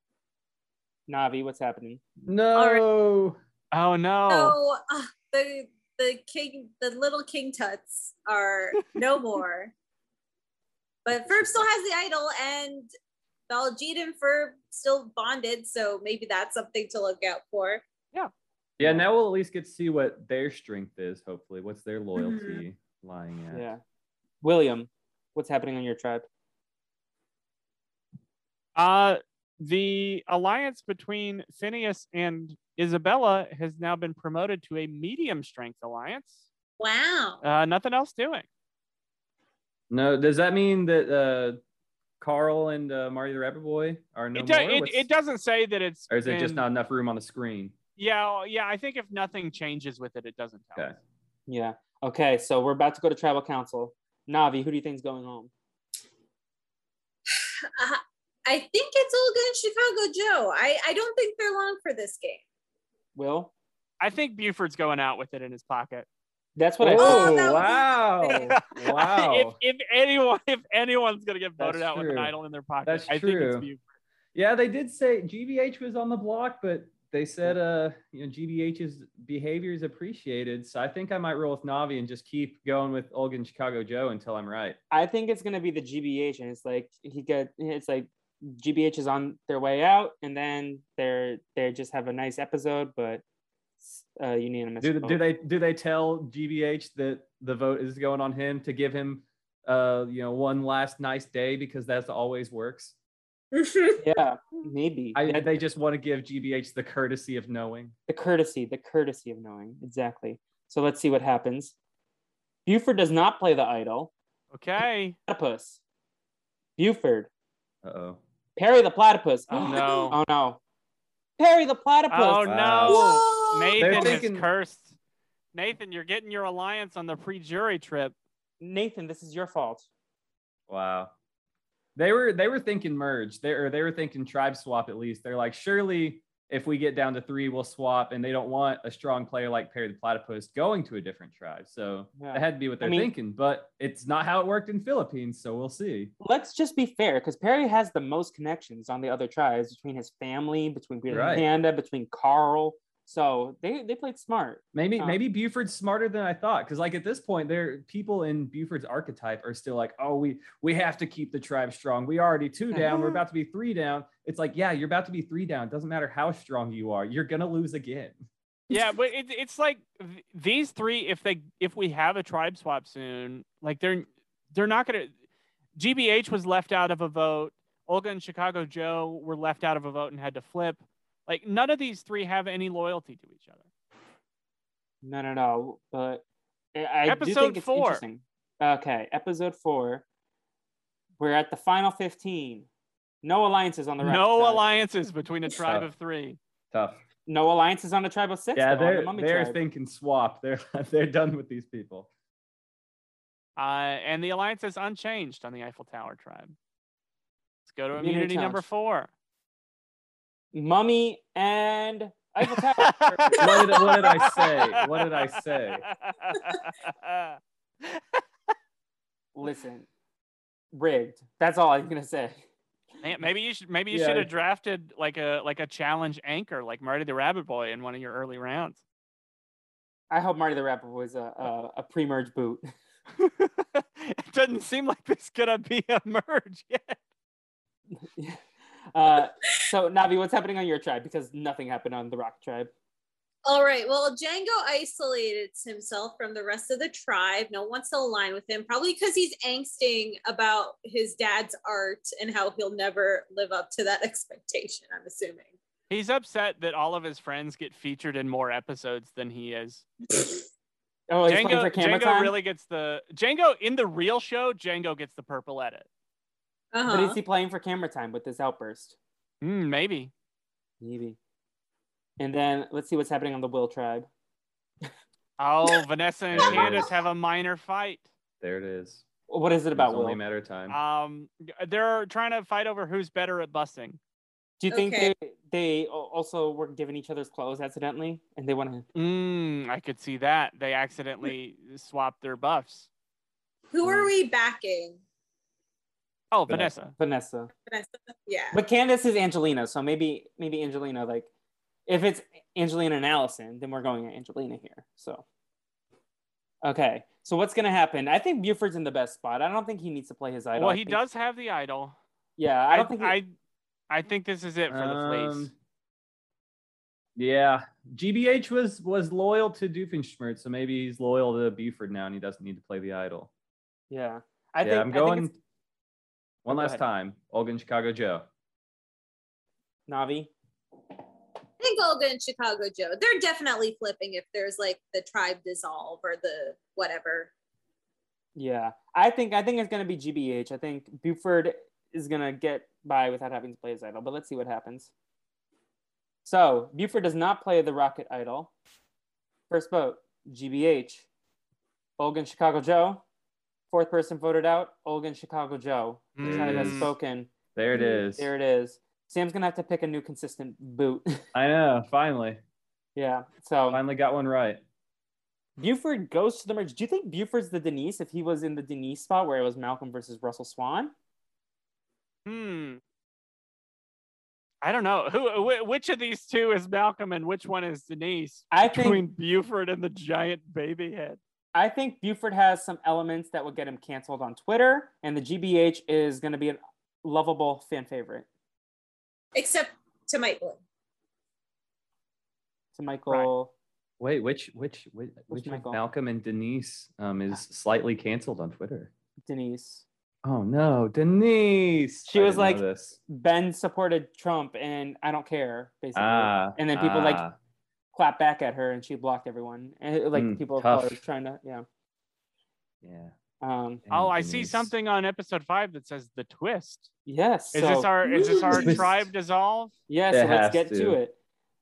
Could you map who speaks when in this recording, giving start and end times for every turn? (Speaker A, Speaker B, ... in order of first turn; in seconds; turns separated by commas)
Speaker A: 1.1-2.0, Speaker B: 2.2-3.4, Speaker C: 2.5-2.8, Speaker D: 3.7-4.6, Speaker C: 4.3-9.7, Speaker C: 11.0-12.9, Speaker C: 13.5-17.8, Speaker B: 18.8-23.7, Speaker C: 22.1-22.6, Speaker A: 23.5-23.8, Speaker A: 24.4-26.2, Speaker D: 28.8-36.4, Speaker C: 36.8-37.4, Speaker D: 37.4-38.5, Speaker B: 39.9-41.6, Speaker B: 42.2-45.1, Speaker D: 44.3-46.6, Speaker B: 46.1-47.7, Speaker D: 48.0-50.9, Speaker A: 51.5-55.5, Speaker C: 57.3-62.4, Speaker A: 63.1-63.5, Speaker D: 64.0-66.1, Speaker A: 66.6-67.5, Speaker B: 66.8-69.6, Speaker C: 67.0-68.5, Speaker D: 68.3-73.8, Speaker B: 71.6-73.7, Speaker B: 74.3-84.8, Speaker A: 84.9-93.2, Speaker A: 93.8-95.2, Speaker B: 94.8-102.9, Speaker C: 103.5-104.0, Speaker A: 104.0-105.5, Speaker B: 105.1-107.9, Speaker A: 108.1-111.7, Speaker A: 112.7-114.1, Speaker D: 114.5-115.2, Speaker A: 115.3-115.8, Speaker A: 116.8-117.3, Speaker B: 117.8-118.2, Speaker A: 118.5-120.6, Speaker D: 119.5-120.2, Speaker C: 119.6-120.0, Speaker A: 121.4-122.5, Speaker D: 122.1-124.9, Speaker B: 122.4-123.0, Speaker C: 122.9-124.2, Speaker B: 123.8-124.5, Speaker D: 125.5-128.1, Speaker A: 128.6-129.9, Speaker B: 130.7-131.1, Speaker B: 131.9-146.1, Speaker A: 142.2-143.1, Speaker A: 146.2-155.2, Speaker B: 151.1-151.4, Speaker B: 154.7-168.2, Speaker D: 168.7-175.1, Speaker D: 175.8-183.7, Speaker A: 185.0-186.2, Speaker A: 186.7-190.0, Speaker D: 187.1-188.0, Speaker A: 191.2-192.7, Speaker A: 193.2-194.6, Speaker D: 194.0-196.4, Speaker B: 195.6-195.9, Speaker B: 196.7-197.0, Speaker A: 197.3-199.6, Speaker B: 198.6-202.1, Speaker D: 203.6-206.6, Speaker D: 207.7-209.1, Speaker A: 208.0-208.7, Speaker A: 210.5-213.8, Speaker D: 212.5-218.2, Speaker B: 213.4-215.9, Speaker A: 219.3-219.9, Speaker A: 220.7-222.4, Speaker D: 223.0-228.8, Speaker B: 223.9-224.3, Speaker A: 230.1-232.7, Speaker D: 233.2-237.0, Speaker A: 237.9-238.4, Speaker A: 238.9-242.7, Speaker C: 243.4-255.5, Speaker D: 255.9-259.9, Speaker A: 261.1-262.3, Speaker D: 261.3-265.9, Speaker C: 266.7-267.2, Speaker A: 266.9-268.9, Speaker D: 269.4-270.1, Speaker A: 270.8-271.2, Speaker A: 272.2-274.1, Speaker D: 275.4-278.1, Speaker B: 276.3-276.9, Speaker B: 278.4-279.0, Speaker A: 279.3-280.2, Speaker B: 279.7-280.8, Speaker D: 280.7-284.0, Speaker A: 284.6-288.8, Speaker C: 284.7-285.1, Speaker D: 288.9-292.9, Speaker C: 293.7-295.0, Speaker D: 296.3-296.9, Speaker B: 296.5-296.7, Speaker A: 297.0-297.5, Speaker C: 297.7-298.6, Speaker A: 298.5-301.3, Speaker A: 301.9-305.2, Speaker A: 306.6-311.0, Speaker D: 310.6-311.9, Speaker A: 312.4-313.2, Speaker D: 312.7-313.3, Speaker D: 313.9-315.5, Speaker B: 314.7-315.5, Speaker B: 317.1-323.3, Speaker A: 323.9-325.3, Speaker B: 324.6-325.4, Speaker B: 326.4-328.2, Speaker A: 326.5-326.8, Speaker A: 329.9-330.3, Speaker C: 331.6-337.3, Speaker A: 338.4-344.9, Speaker A: 346.2-348.5, Speaker A: 349.5-351.1, Speaker A: 352.0-353.0, Speaker A: 353.7-357.3, Speaker D: 356.2-356.9, Speaker B: 356.2-356.9, Speaker B: 357.5-358.3, Speaker A: 358.1-361.2, Speaker B: 361.3-362.4, Speaker A: 362.9-363.8, Speaker B: 363.7-364.6, Speaker A: 365.6-370.9, Speaker D: 372.2-372.8, Speaker D: 374.6-381.2, Speaker A: 378.5-379.0, Speaker A: 381.5-388.3, Speaker C: 389.3-390.6, Speaker A: 392.7-393.5, Speaker B: 394.0-398.9, Speaker A: 395.3-395.8, Speaker A: 399.2-399.8, Speaker B: 400.2-403.0, Speaker A: 402.1-407.2, Speaker B: 405.9-407.3, Speaker A: 407.9-411.6, Speaker B: 410.1-411.0, Speaker B: 412.8-413.1, Speaker A: 413.4-413.8, Speaker B: 413.9-414.7, Speaker D: 413.9-416.9, Speaker A: 417.1-417.9, Speaker D: 417.5-419.7, Speaker C: 418.0-418.8, Speaker B: 418.6-419.0, Speaker A: 419.9-421.1, Speaker B: 420.1-421.0